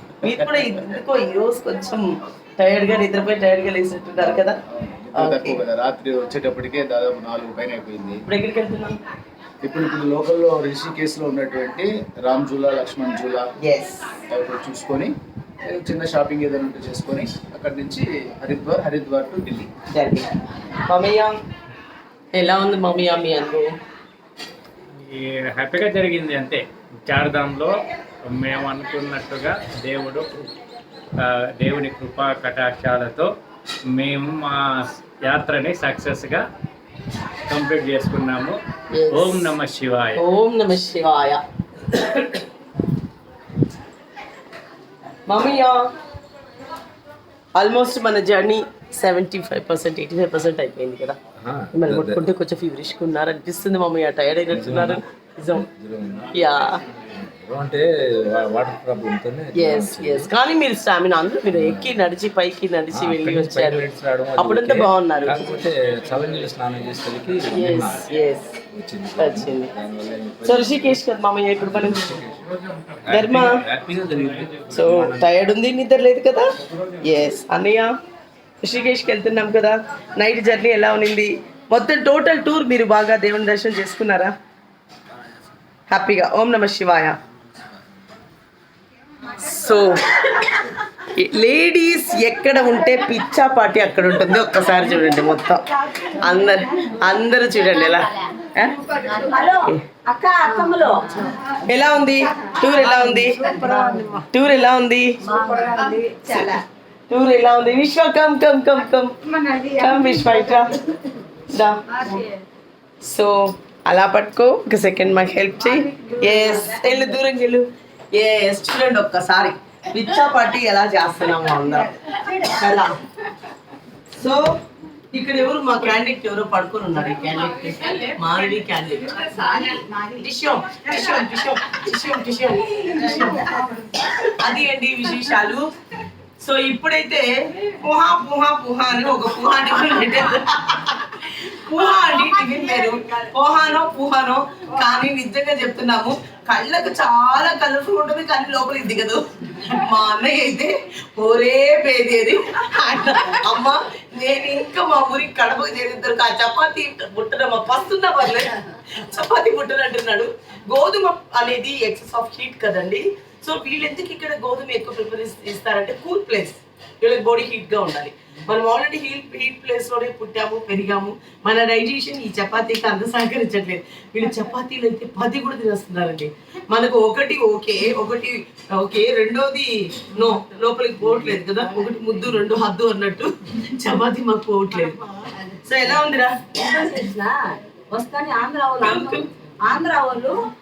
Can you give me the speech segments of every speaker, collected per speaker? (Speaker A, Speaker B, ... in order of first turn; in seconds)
Speaker A: 0.2-4.6, 5.2-5.6, 8.3-9.0, 13.6-14.1, 19.9-20.3, 20.9-21.3, 22.4-23.7, 39.0-39.5, 40.2-42.4, 45.3-45.8, 47.5-51.2, 51.7-55.7, 56.3-56.8, 59.5-65.5, 67.5-68.5, 69.2-69.7, 70.4-72.1, 73.1-73.6, 74.7-76.5, 77.0-77.9, 78.6-84.3, 85.9-87.2, 89.3-98.7, 101.7-103.5, 104.2-105.2, 107.1-109.1, 109.6-110.8, 111.5-112.2, 113.0-123.0, 124.1-124.5, 125.1-135.7, 136.4-186.6, 188.8-189.2
Speaker B: 0.4-0.6, 4.7-8.2, 9.6-13.5, 14.3-15.1, 15.7-19.7
Speaker C: 25.0-27.7, 28.3-30.2, 31.2-33.3, 33.9-34.6, 35.2-36.4, 37.5-38.6, 39.1-40.2
Speaker D: 51.4-52.2, 54.5-55.0, 55.5-56.4, 57.0-60.3, 61.5-62.0, 62.9-71.0, 71.6-72.5, 73.1-75.2
Speaker E: 99.2-101.3, 103.5-104.1, 105.4-106.6, 186.6-187.4, 187.9-190.4